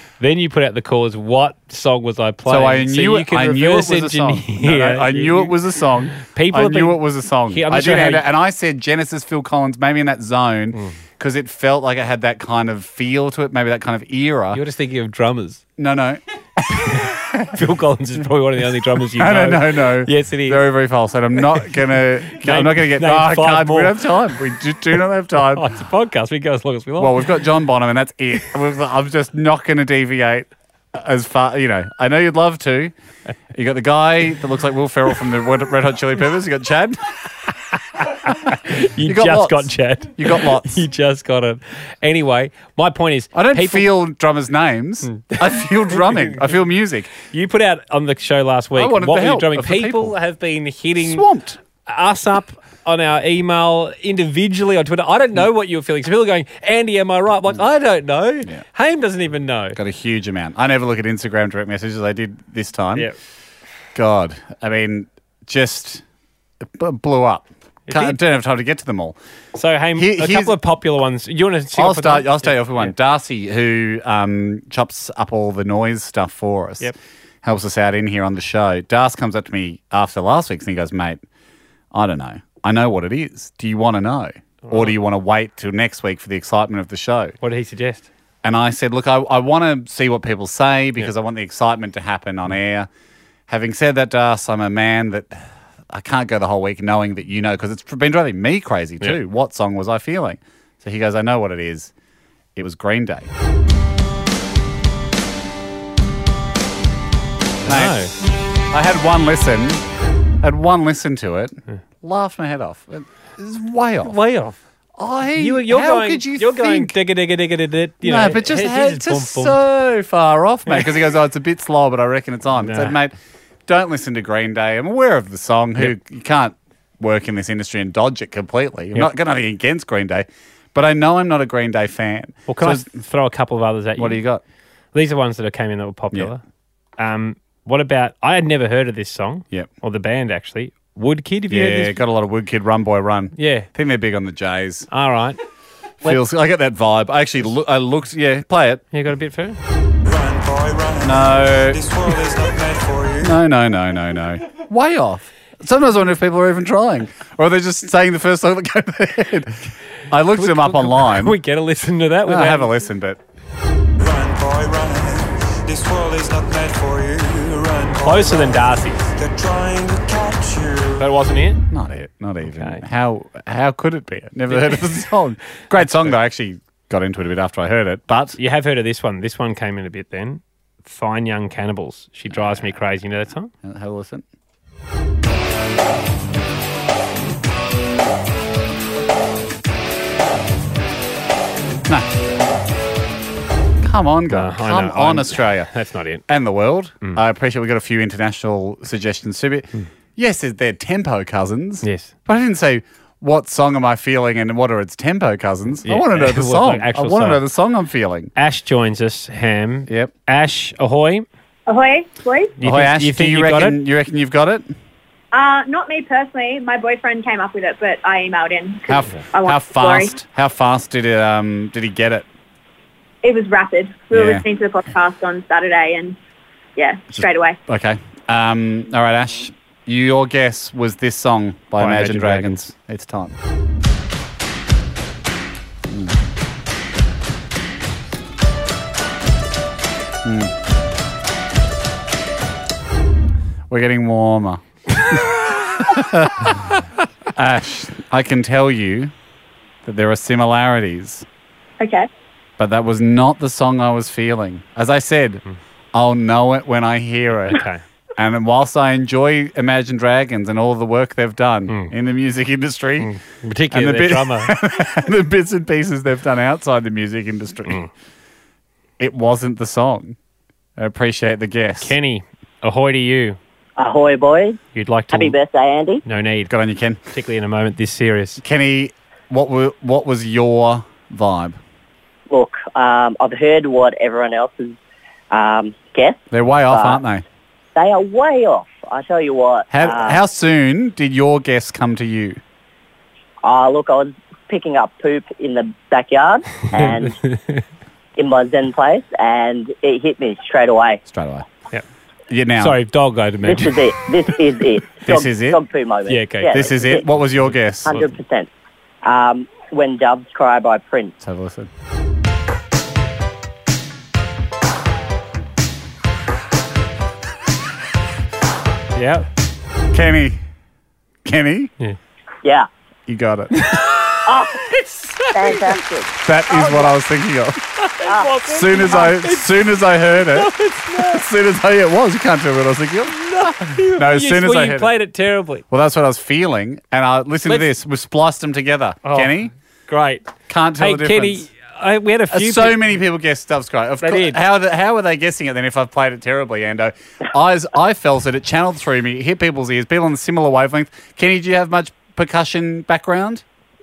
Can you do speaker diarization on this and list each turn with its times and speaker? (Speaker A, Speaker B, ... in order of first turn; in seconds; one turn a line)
Speaker A: 0.2-5.6
Speaker B: 2.5-14.6
Speaker A: 6.1-8.3
Speaker A: 14.5-15.6
Speaker B: 15.8-17.6
Speaker A: 16.7-20.6
Speaker B: 19.1-25.7
Speaker A: 22.3-24.0
Speaker A: 25.5-27.2
Speaker B: 27.0-32.9
Speaker B: 33.5-37.2
Speaker A: 38.0-43.9
Speaker B: 39.0-40.9
Speaker B: 43.3-47.1
Speaker A: 45.1-46.4
Speaker A: 47.2-51.3
Speaker B: 48.8-50.2
Speaker B: 51.0-51.6
Speaker A: 51.9-59.8
Speaker B: 59.8-63.1
Speaker B: 63.9-66.0
Speaker B: 66.6-69.2
Speaker A: 67.9-68.2
Speaker A: 69.5-72.9
Speaker B: 70.0-70.6
Speaker B: 71.7-81.2
Speaker B: 81.9-87.3
Speaker A: 84.7-84.9
Speaker A: 87.4-88.1
Speaker B: 88.4-92.9
Speaker B: 93.5-101.9
Speaker B: 102.5-103.3
Speaker A: 107.7-108.1
Speaker B: 107.7-108.0
Speaker B: 108.7-109.8
Speaker B: 110.4-114.2
Speaker A: 114.0-114.6
Speaker B: 115.0-117.0
Speaker A: 115.4-119.6
Speaker B: 118.0-123.2
Speaker A: 122.6-123.0
Speaker B: 123.7-133.0
Speaker A: 132.5-134.2
Speaker B: 134.0-134.4
Speaker A: 134.9-136.4
Speaker A: 137.0-142.0
Speaker B: 141.5-144.9
Speaker A: 143.4-143.7
Speaker A: 144.9-145.4
Speaker B: 146.0-148.8
Speaker A: 148.9-149.6
Speaker C: 150.1-153.4
Speaker B: 151.0-151.8
Speaker B: 153.2-161.4
Speaker A: 160.3-162.8
Speaker B: 162.2-163.2
Speaker C: 164.0-171.1
Speaker A: 167.9-169.1
Speaker A: 171.0-171.6
Speaker B: 171.7-178.4
Speaker A: 172.4-172.8
Speaker A: 174.5-174.8
Speaker A: 178.4-183.5
Speaker B: 182.3-182.7
Speaker B: 183.6-184.2
Speaker B: 193.8-195.7
Speaker A: 194.3-196.2
Speaker B: 196.3-208.3
Speaker A: 201.8-202.1
Speaker A: 205.8-207.4
Speaker A: 208.4-211.3
Speaker D: 211.7-212.6
Speaker A: 212.6-213.8
Speaker B: 212.6-214.7
Speaker D: 215.3-220.2
Speaker B: 218.9-222.3
Speaker D: 223.2-226.2
Speaker B: 224.1-224.4
Speaker D: 226.8-227.6
Speaker B: 227.1-233.3
Speaker A: 231.8-232.6
Speaker B: 235.9-236.2
Speaker B: 240.2-240.5
Speaker B: 243.7-246.8
Speaker B: 247.3-249.1
Speaker B: 249.8-251.2
Speaker D: 251.8-252.1
Speaker B: 252.6-255.4
Speaker B: 255.9-257.6
Speaker A: 257.5-257.8
Speaker B: 258.2-263.1
Speaker A: 261.7-261.9
Speaker A: 263.0-264.5
Speaker B: 263.7-267.9
Speaker B: 269.0-270.2
Speaker B: 270.8-271.9
Speaker A: 271.8-273.4
Speaker E: 273.8-274.6
Speaker A: 274.7-275.4
Speaker E: 275.1-276.0
Speaker A: 276.1-276.5
Speaker B: 276.5-277.0
Speaker A: 277.1-278.4
Speaker B: 278.4-281.6
Speaker E: 282.3-284.8
Speaker E: 285.3-287.0
Speaker B: 286.3-287.2
Speaker E: 287.8-290.2
Speaker B: 289.7-292.4
Speaker E: 293.4-297.2
Speaker A: 296.8-297.6
Speaker E: 298.2-301.0
Speaker B: 301.1-301.5
Speaker B: 302.3-302.8
Speaker A: 302.6-304.1
Speaker E: 303.4-307.1
Speaker B: 305.0-305.6
Speaker A: 306.1-307.0
Speaker B: 306.5-308.0
Speaker E: 307.9-308.5
Speaker E: 309.0-311.1
Speaker B: 311.2-311.7
Speaker A: 318.9-319.3
Speaker B: 319.9-320.4
Speaker B: 321.2-321.7
Speaker B: 323.1-323.6
Speaker A: 323.5-325.8
Speaker E: 324.3-324.6
Speaker E: 325.3-326.1
Speaker B: 326.2-327.6
Speaker A: 327.8-331.3
Speaker E: 328.0-328.7
Speaker B: 328.4-334.9
Speaker A: 333.1-335.6
Speaker B: 335.7-339.5
Speaker A: 339.0-339.3
Speaker A: 339.9-342.8
Speaker B: 340.5-341.5
Speaker B: 342.3-353.4
Speaker A: 344.0-344.4